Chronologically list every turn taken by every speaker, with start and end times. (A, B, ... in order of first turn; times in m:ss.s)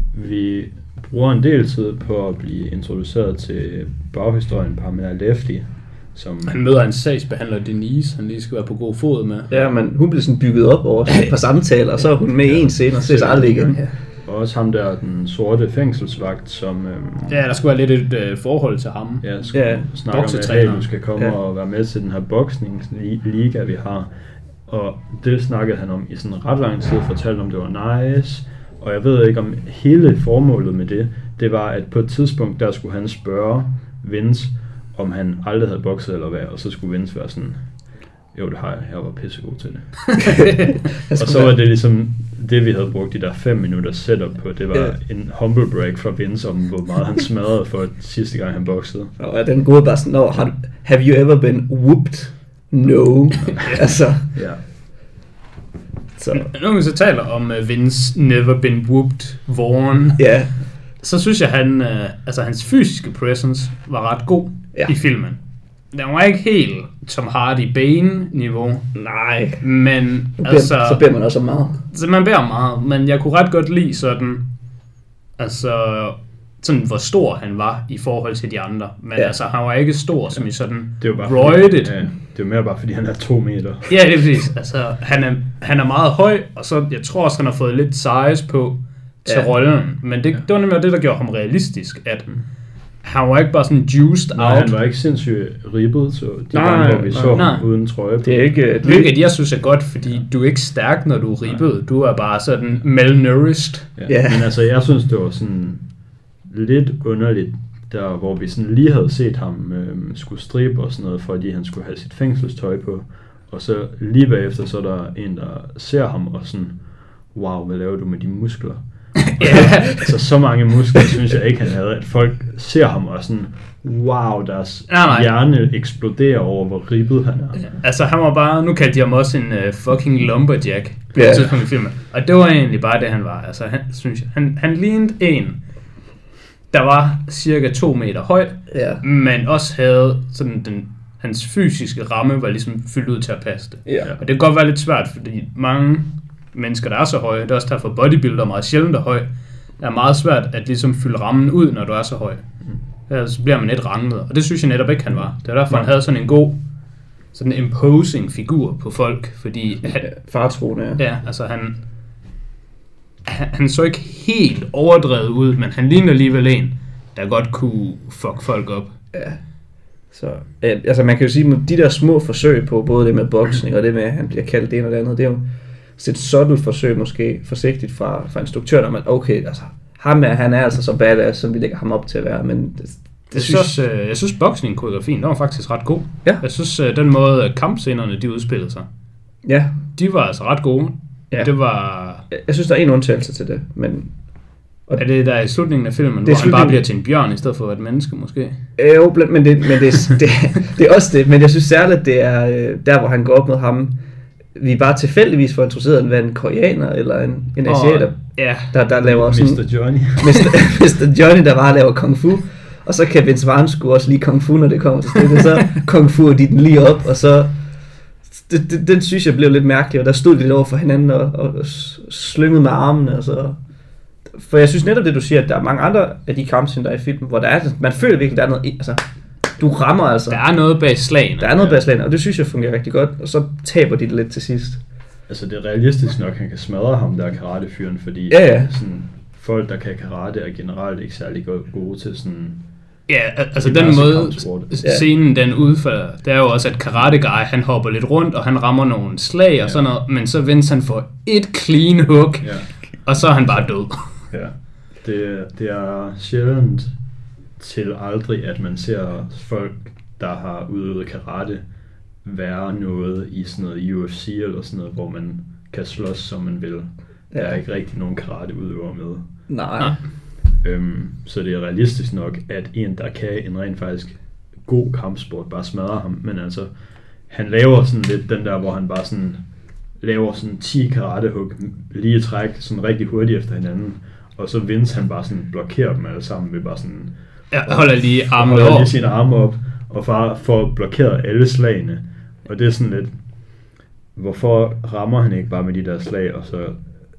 0:00.1-0:06.6 A
0:06.4-0:09.5 B
0:09.5-0:13.9 C
0:12.4-0:17.4 A
0:17.3-0:19.2 B
0:19.2-0:24.1 A
0:19.5-0:19.9 C
0:20.1-0:20.9 B
0:24.7-0:37.6 A
0:38.3-0:40.1 A
0:40.2-0:40.5 B
0:40.2-0:41.5 C
0:41.1-0:49.1 A
0:49.2-0:54.2 C
0:53.4-0:53.7 A
0:53.6-0:53.9 B
0:54.3-0:54.6 A
0:56.2-0:56.5 C
0:56.3-1:00.2 B
1:00.2-1:00.5 C
1:01.0-1:05.4 B
1:05.9-1:08.9 B
1:08.9-1:09.6 C
1:09.6-1:11.0 B
1:10.4-1:11.8 C
1:11.9-1:14.4 B
1:15.4-1:22.0 B
1:21.0-1:23.9 A
1:23.9-1:32.3 B
1:33.0-1:34.7 B
1:34.3-1:38.6 A
1:36.5-1:37.4 C
1:37.3-1:37.6 B
1:38.2-1:39.1 C
1:38.8-1:43.9 B
1:44.0-1:45.8 A
1:44.1-1:44.5 C
1:46.5-1:56.8 A
1:57.3-1:58.8 A
1:59.3-2:00.1 B
1:59.4-2:07.6 A
2:04.9-2:05.3 B
2:07.6-2:15.6 B
2:11.1-2:11.5 C
2:16.7-2:29.3 B
2:18.7-2:19.0 C
2:29.8-2:32.4 B
2:33.1-2:36.6 B
2:37.3-2:40.1 B
2:40.0-2:41.0 C
2:41.0-2:41.8 B
2:43.2-2:48.9 B
2:49.1-2:49.4 C
2:50.1-2:55.4 C
2:56.0-3:03.7 C
3:03.3-3:08.9 B
3:09.4-3:09.7 C
3:10.0-3:12.2 B
3:12.3-3:14.1 C
3:15.0-3:18.6 B
3:16.2-3:16.8 C
3:18.8-3:23.9 C
3:24.6-3:37.5 C
3:27.6-3:28.7 B
3:29.0-3:30.7 A
3:38.4-3:43.6 C
3:44.3-3:49.0 C
3:49.6-3:50.4 C
3:50.3-3:51.7 B
3:51.4-3:54.8 C
3:55.3-4:02.6 A
3:58.3-3:58.7 C
4:03.1-4:14.0 B
4:03.6-4:04.8 A
4:12.4-4:12.7 A
4:14.3-4:16.9 A
4:17.6-4:21.6 A
4:22.2-4:29.2 A
4:27.3-4:27.6 C
4:29.5-4:30.0 C
4:30.6-4:36.7 A
4:37.3-4:39.4 A
4:40.0-4:47.1 A
4:47.5-4:48.9 B
4:47.7-4:53.1 A
4:54.2-4:56.8 A